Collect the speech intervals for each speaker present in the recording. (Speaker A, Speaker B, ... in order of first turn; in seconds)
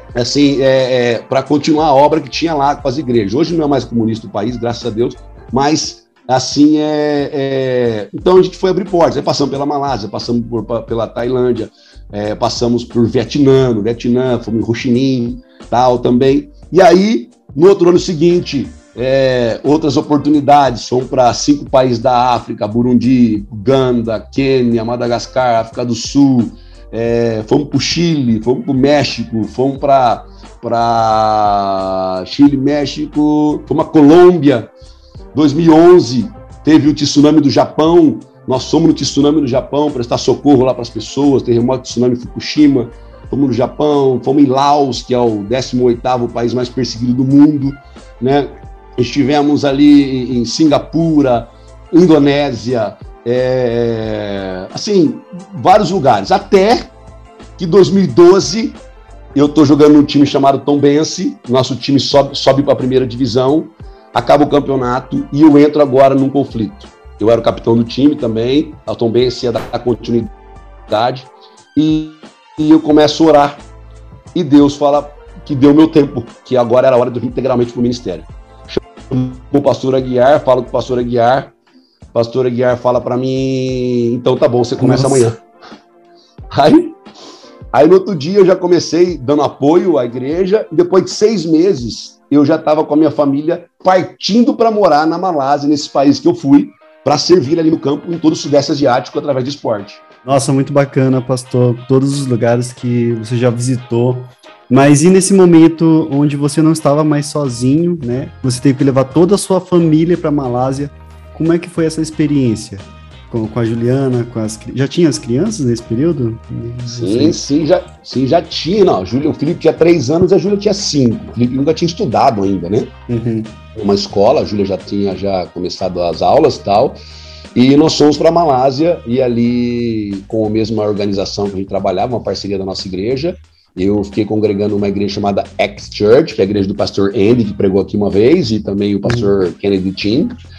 Speaker A: 0.1-34.7, 35.3-56.9, 57.6-58.8, 59.3-70.3, 70.9-73.6, 74.3-81.5, 82.1-85.4, 86.5-87.0, 87.7-100.0, 116.8-122.9, 123.7-127.0, 127.5-140.3
Speaker B: 84.8-85.3, 100.2-117.3, 123.1-123.6